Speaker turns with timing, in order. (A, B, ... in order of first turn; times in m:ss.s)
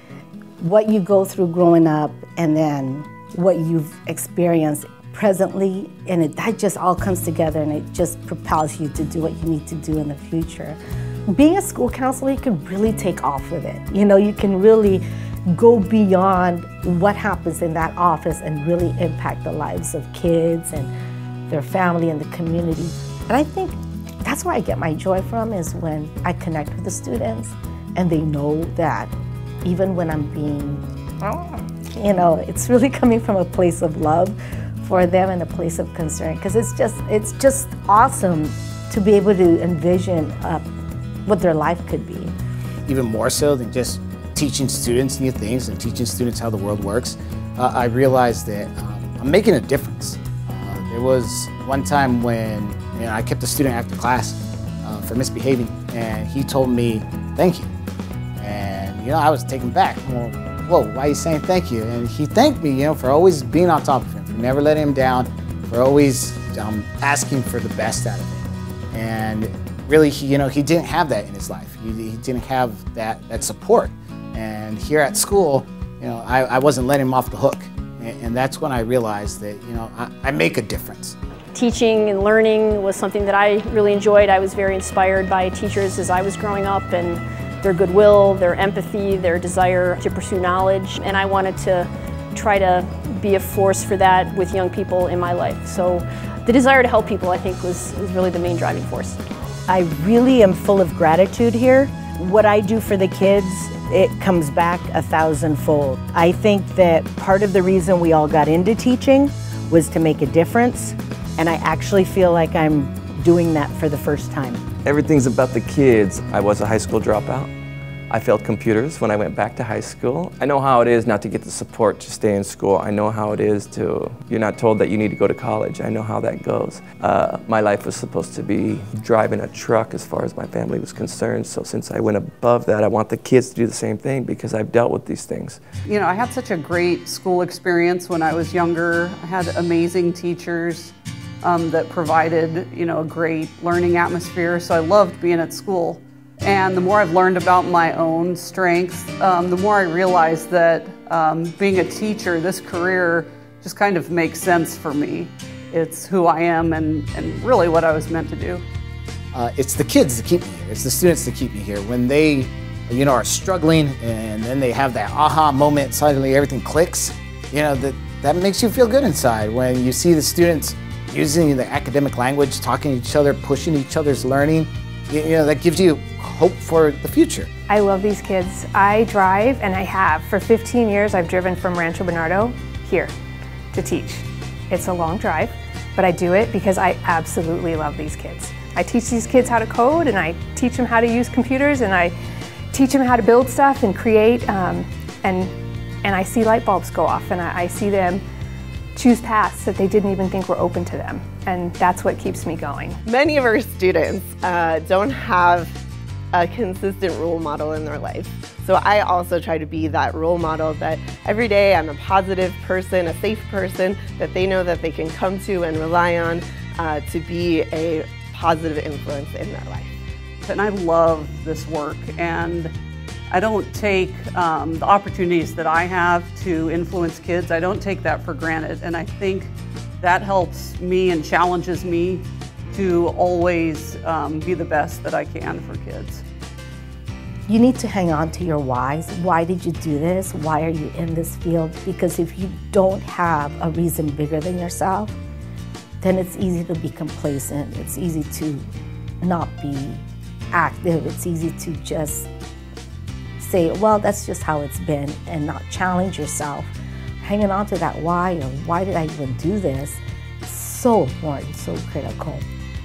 0:00.6-0:10.8 A
0:11.3-0:20.9 A
0:21.5-0:29.1 A
0:29.6-0:40.6 A
0:41.3-0:42.3 A
0:42.9-0:57.7 B
0:58.4-1:21.2 B
1:21.5-1:39.2 C
1:39.7-1:54.6 D
1:54.8-1:57.5 E
1:58.1-2:15.6 E
2:15.8-2:38.6 F
2:39.3-2:57.5 B
2:57.7-3:03.1 G
3:03.7-3:12.1 G
3:12.7-3:15.5 G
3:16.0-3:18.2 G
3:19.0-3:23.0 G
3:23.1-3:25.7 H
3:26.3-3:39.9 H
3:40.4-3:42.7 F
3:43.3-3:56.2 F
3:57.5-4:05.2 A
4:06.0-4:08.7 A
4:09.2-4:12.3 A
4:13.4-4:22.4 A